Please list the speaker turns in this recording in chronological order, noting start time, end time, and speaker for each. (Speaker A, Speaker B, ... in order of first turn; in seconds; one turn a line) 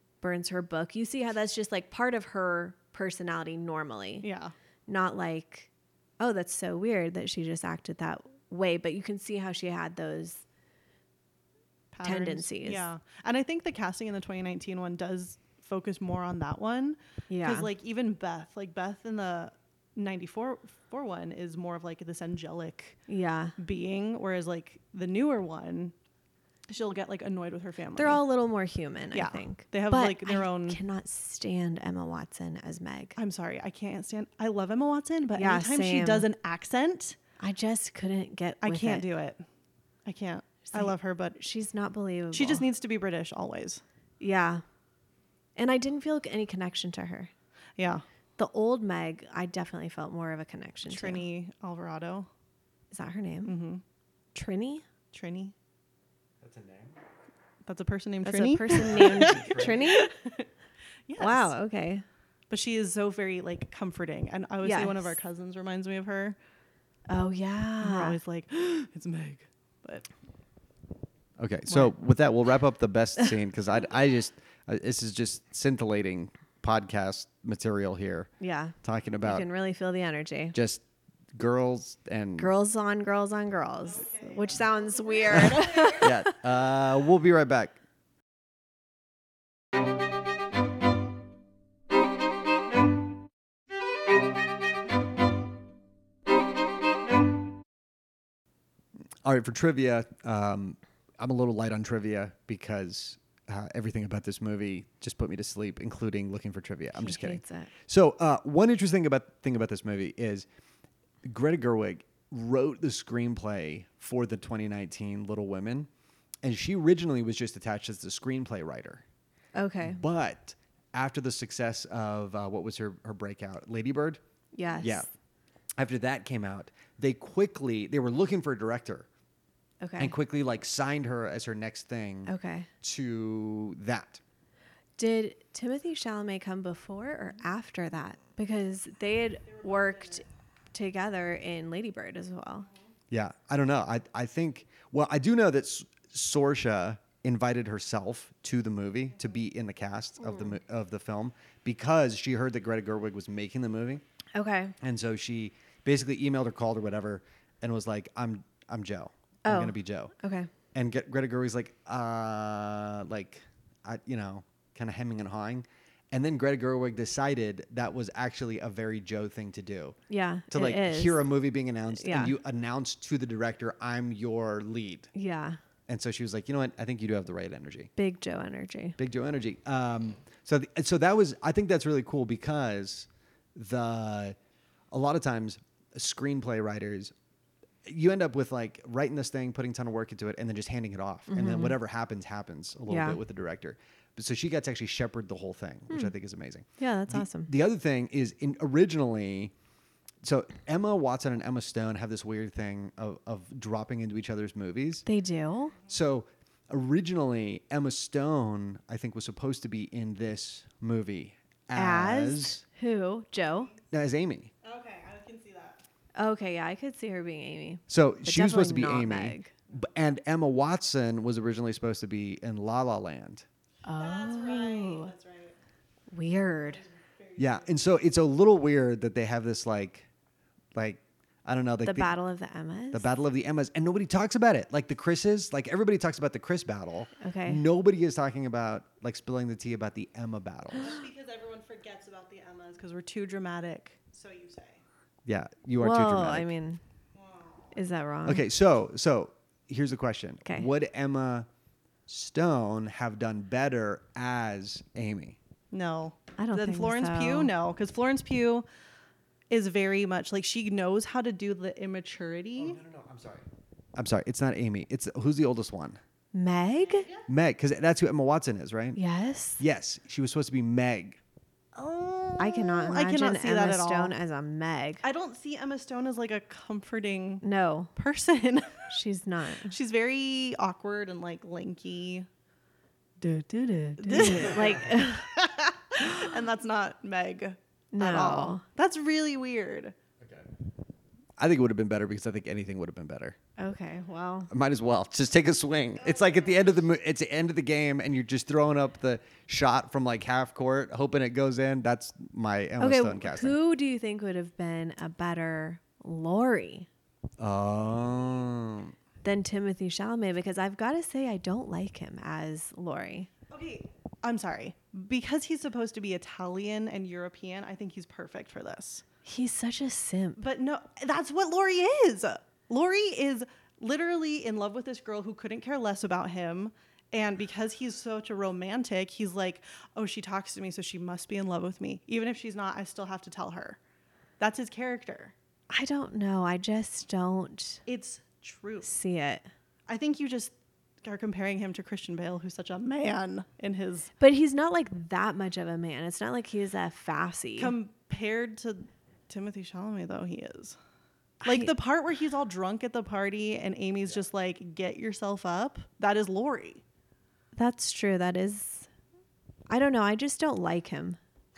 Speaker A: 0.2-4.3
Speaker B: 4.2-4.5
Speaker A: 4.9-10.4
Speaker B: 11.9-23.0
Speaker A: 12.0-12.9
Speaker A: 17.3-17.7
Speaker A: 23.1-23.5
Speaker B: 23.6-25.9
Speaker B: 26.7-28.2
Speaker A: 28.0-33.2
Speaker B: 29.1-30.8
Speaker B: 33.2-37.2
Speaker A: 35.4-36.3
Speaker A: 37.4-39.1
Speaker B: 38.6-39.4
Speaker B: 40.0-41.4
Speaker A: 40.7-42.6
Speaker B: 42.3-43.8
Speaker A: 44.2-44.6
Speaker A: 45.5-47.3
Speaker B: 47.8-48.0
Speaker A: 48.4-51.2
Speaker B: 50.9-52.3
Speaker A: 52.9-53.5
Speaker B: 53.4-53.8
Speaker A: 54.3-54.8
Speaker B: 55.1-55.5
Speaker C: 56.4-57.0
Speaker B: 57.6-60.5
Speaker A: 58.2-60.1
Speaker C: 58.7-59.8
Speaker B: 61.1-61.5
Speaker A: 61.2-62.0
Speaker B: 62.5-66.4
Speaker A: 64.6-65.1
Speaker A: 67.1-68.2
Speaker B: 67.8-70.1
Speaker C: 71.4-78.3
Speaker A: 78.4-80.5
Speaker C: 78.8-79.5
Speaker C: 80.5-80.8
Speaker C: 81.3-82.5
Speaker A: 82.4-86.3
Speaker B: 84.0-84.7
Speaker B: 85.2-85.9
Speaker C: 85.3-87.8
Speaker C: 99.2-110.5
Speaker A: 106.9-107.7
Speaker C: 111.2-115.9
Speaker C: 116.4-119.0
Speaker A: 119.5-120.0
Speaker C: 119.8-124.2
Speaker A: 124.5-125.1
Speaker C: 124.8-125.0
Speaker C: 125.8-129.1
Speaker A: 129.8-130.2
Speaker C: 130.0-134.2
Speaker A: 132.2-132.7
Speaker A: 135.0-142.7
Speaker C: 143.1-154.0
Speaker A: 150.2-150.6
Speaker A: 154.3-154.7
Speaker C: 154.8-160.1
Speaker A: 159.4-160.5
Speaker C: 160.7-169.9
Speaker A: 170.1-171.2
Speaker C: 170.5-175.1
Speaker A: 171.9-172.3
Speaker A: 175.1-175.6
Speaker C: 175.9-177.9
Speaker A: 177.9-179.0
Speaker C: 179.0-184.3
Speaker C: 184.9-187.1
Speaker C: 187.8-199.5
Speaker A: 191.3-191.8
Speaker A: 192.9-193.2
Speaker A: 196.8-197.5
Speaker C: 200.2-205.0
Speaker A: 205.1-205.7
Speaker C: 205.9-212.6
Speaker A: 211.7-213.7
Speaker C: 213.9-214.5
Speaker B: 214.6-215.8
Speaker A: 216.2-219.5
Speaker C: 217.9-223.4
Speaker A: 223.8-225.1
Speaker B: 224.0-225.6
Speaker A: 226.1-226.8
Speaker B: 226.7-227.8
Speaker C: 227.4-230.1
Speaker C: 230.7-232.1
Speaker A: 231.8-233.1
Speaker C: 232.9-241.0
Speaker A: 237.2-237.6
Speaker B: 240.8-244.8
Speaker C: 245.2-246.5
Speaker A: 245.8-246.8
Speaker B: 247.2-247.7
Speaker A: 247.7-248.4
Speaker C: 248.2-251.5
Speaker C: 252.1-255.4
Speaker B: 255.7-258.6
Speaker A: 256.4-257.5
Speaker B: 259.5-262.8
Speaker C: 262.6-263.4
Speaker C: 263.9-266.0
Speaker A: 266.3-267.1
Speaker B: 266.9-267.3
Speaker C: 267.3-269.0
Speaker A: 268.9-269.6
Speaker C: 269.6-271.2
Speaker B: 271.7-274.1
Speaker A: 272.4-275.0
Speaker B: 275.0-277.4
Speaker A: 277.4-277.9
Speaker B: 277.9-278.9
Speaker A: 278.9-279.7
Speaker B: 279.6-282.3
Speaker A: 283.2-285.3
Speaker B: 284.0-289.9
Speaker A: 286.0-286.2
Speaker A: 287.9-288.6
Speaker C: 290.2-290.5
Speaker C: 291.4-293.4
Speaker A: 293.6-294.5
Speaker C: 294.5-303.6
Speaker A: 302.8-306.9
Speaker C: 307.4-308.9
Speaker A: 309.2-313.3
Speaker B: 313.5-319.0
Speaker A: 319.2-320.4
Speaker B: 320.4-333.8
Speaker B: 334.4-335.3
Speaker A: 335.7-337.8
Speaker B: 337.9-338.9
Speaker A: 338.8-339.5
Speaker B: 339.9-344.1
Speaker A: 344.2-347.7
Speaker B: 347.6-350.8
Speaker A: 351.4-351.7
Speaker B: 351.4-356.8
Speaker A: 357.6-358.9
Speaker A: 359.7-361.2